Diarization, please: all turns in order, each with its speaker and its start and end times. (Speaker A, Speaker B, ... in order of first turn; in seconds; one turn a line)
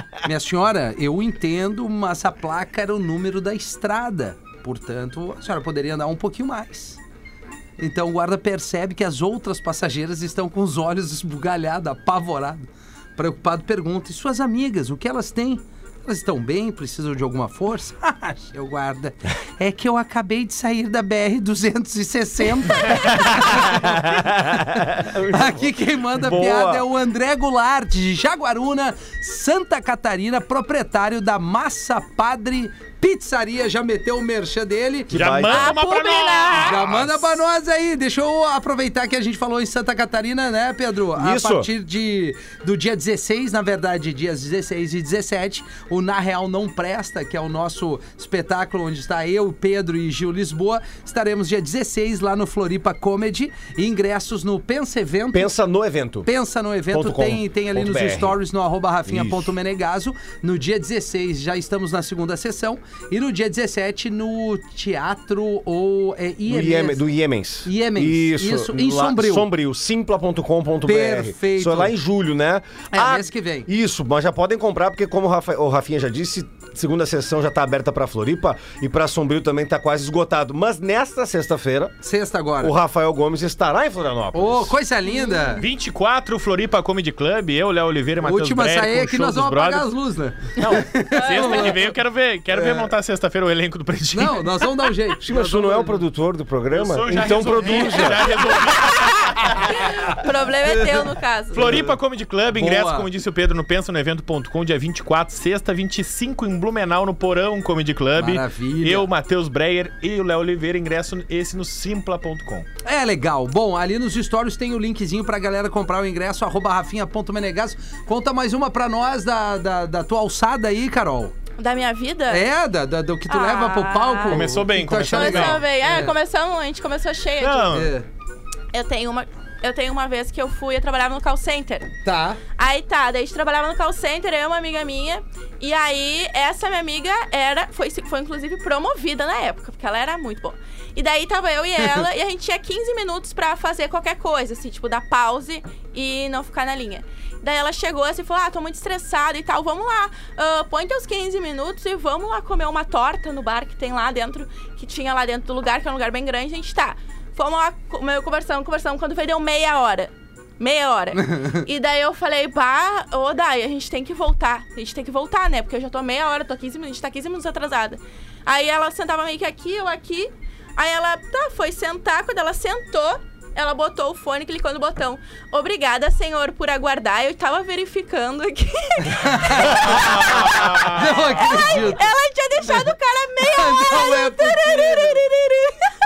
Speaker A: 0.2-7.0
Speaker A: 7.8-24.3
Speaker B: 23.4-26.9
Speaker A: 25.1-35.2
Speaker B: 35.1-35.8
Speaker C: 35.1-37.3
Speaker D: 35.5-36.8
Speaker A: 36.6-55.5
Speaker B: 41.1-41.7
Speaker B: 55.3-56.3
Speaker A: 56.2-67.0
Speaker B: 56.9-58.4
Speaker B: 59.1-59.5
Speaker B: 66.5-82.0
Speaker A: 67.6-69.5
Speaker A: 70.8-71.9
Speaker A: 72.9-73.7
Speaker A: 82.0-82.7
Speaker B: 82.6-84.8
Speaker A: 84.3-85.6
Speaker D: 85.1-85.6
Speaker C: 85.6-89.9
Speaker A: 88.2-91.9
Speaker C: 90.5-94.6
Speaker D: 91.1-91.7
Speaker A: 92.5-92.9
Speaker A: 94.1-96.0
Speaker B: 95.2-98.4
Speaker C: 96.7-99.8
Speaker A: 97.6-98.1
Speaker D: 98.9-101.8
Speaker A: 100.7-101.9
Speaker C: 101.5-112.7
Speaker A: 102.5-103.1
Speaker A: 108.2-109.1
Speaker A: 112.8-121.3
Speaker D: 121.6-122.5
Speaker A: 122.3-126.1
Speaker D: 123.3-124.5
Speaker C: 124.3-125.6
Speaker D: 125.1-127.8
Speaker C: 127.4-127.9
Speaker A: 127.7-128.1
Speaker D: 128.7-131.9
Speaker A: 132.0-132.4
Speaker D: 132.6-185.9
Speaker A: 179.0-182.1
Speaker C: 179.8-181.0
Speaker A: 183.4-185.2